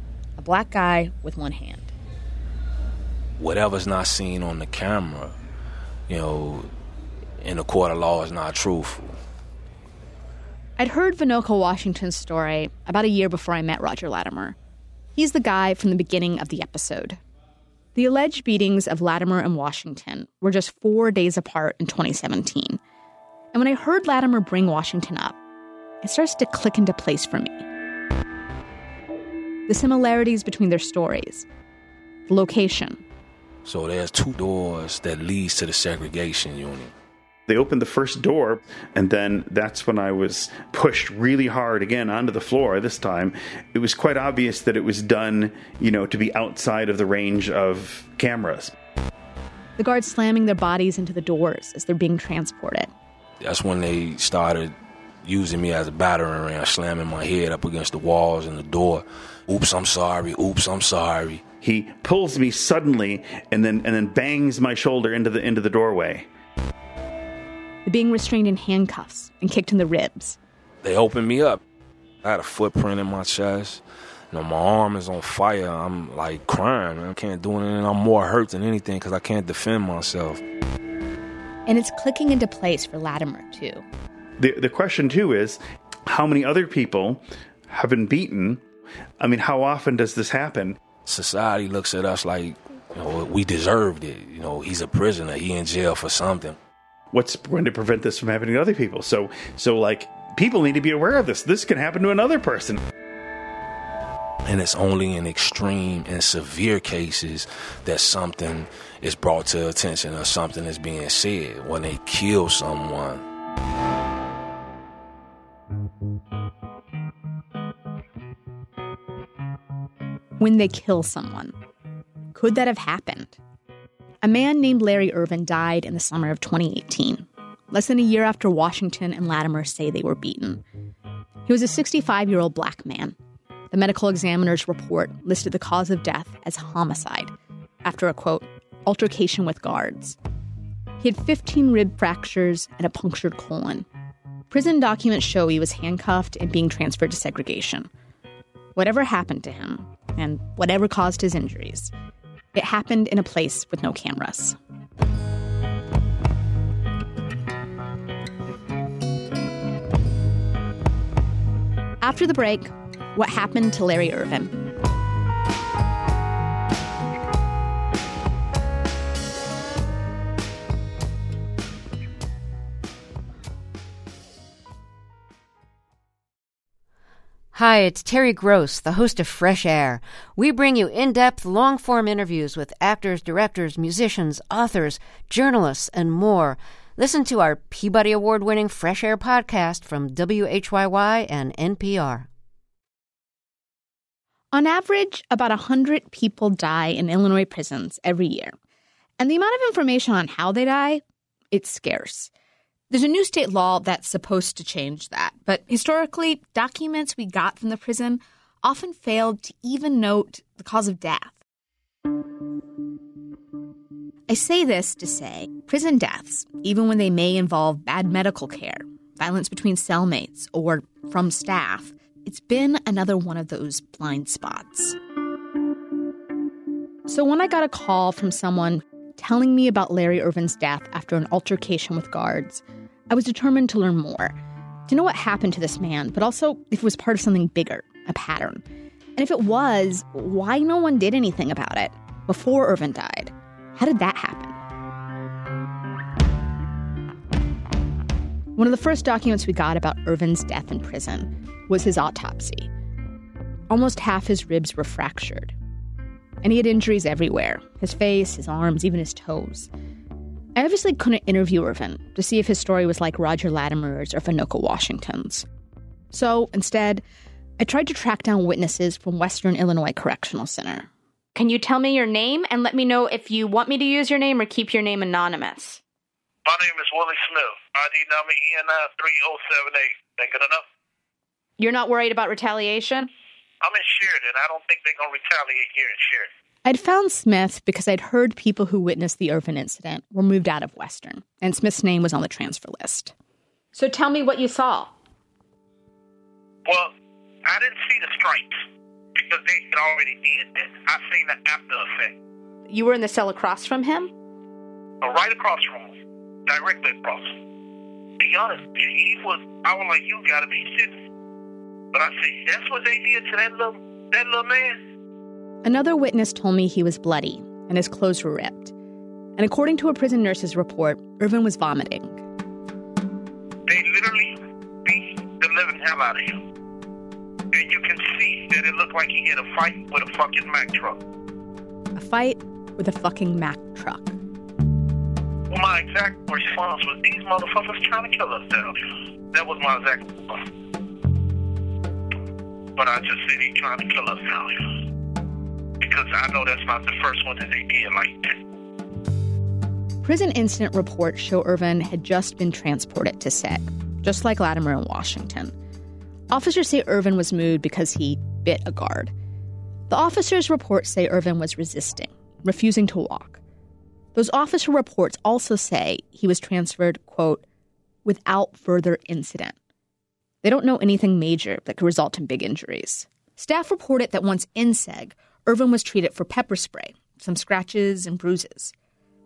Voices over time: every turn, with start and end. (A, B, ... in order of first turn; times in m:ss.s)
0:00.4-0:01.9 A
0:03.4-0:05.3 B
0:06.1-0:06.7 B
0:07.4-0:09.2 B
0:10.8-0:14.6 A
0:15.1-0:17.2 A
0:17.9-0:22.8 A
0:23.5-0:25.4 A
0:26.0-0:27.6 A
0:29.7-0:31.4 A
0:32.3-0:33.0 A
0:33.6-0:36.9 B
0:37.5-0:48.7 C
0:49.8-0:52.9 A
0:53.4-0:54.7 B
0:55.2-1:01.4 B
1:01.6-1:06.3 C
1:07.8-1:10.4 A
1:10.8-1:11.6 B
1:12.2-1:20.4 B
1:21.7-1:23.8 A
1:24.4-1:28.6 C
1:29.2-1:30.8 C
1:31.0-1:36.6 B
1:37.1-1:42.8 C
1:44.4-1:53.2 B
2:00.4-2:01.5 A
2:02.3-2:03.4 A
2:04.2-2:10.6 A
2:11.4-2:13.1 A
2:13.7-2:17.3 A
2:17.8-2:20.2 A
2:21.0-2:23.8 A
2:24.5-2:27.9 A
2:28.7-2:31.9 A
2:32.5-2:34.6 A
2:42.0-2:44.6 A
2:57.5-3:12.3 D
3:14.5-3:18.5 A
3:19.2-3:22.3 A
3:22.9-3:31.4 A
3:34.3-3:45.0 A
3:47.1-3:54.4 A
3:54.9-3:58.6 A
3:59.2-4:04.6 A
4:08.5-4:12.7 A
4:13.7-4:15.5 A
4:16.4-4:19.7 A
4:20.6-4:25.4 A
4:26.1-4:27.0 A
4:27.6-4:35.8 A
4:36.4-4:40.6 E
4:41.6-4:43.1 A
4:43.6-4:46.3 E
4:46.6-4:53.1 A
4:53.7-4:54.9 A
4:56.6-4:56.9 E
4:57.4-4:58.6 E
4:59.1-5:02.1 E
5:02.7-5:04.1 A
5:05.0-5:05.9 E
5:06.4-5:07.3 E
5:08.2-5:11.0 E
5:11.9-5:14.8 E
5:15.6-5:18.7 A
5:19.4-5:22.2 A
5:23.7-5:26.4 E
5:27.5-5:31.0 E
5:31.9-5:34.2 A
5:35.5-5:40.4 E
5:42.8-5:44.7 E
5:45.8-5:48.4 E
5:50.0-5:55.5 A
5:56.3-5:59.1 A
5:59.9-6:03.4 A
6:04.1-6:07.4 A
6:08.0-6:09.5 A
6:10.4-6:18.7 A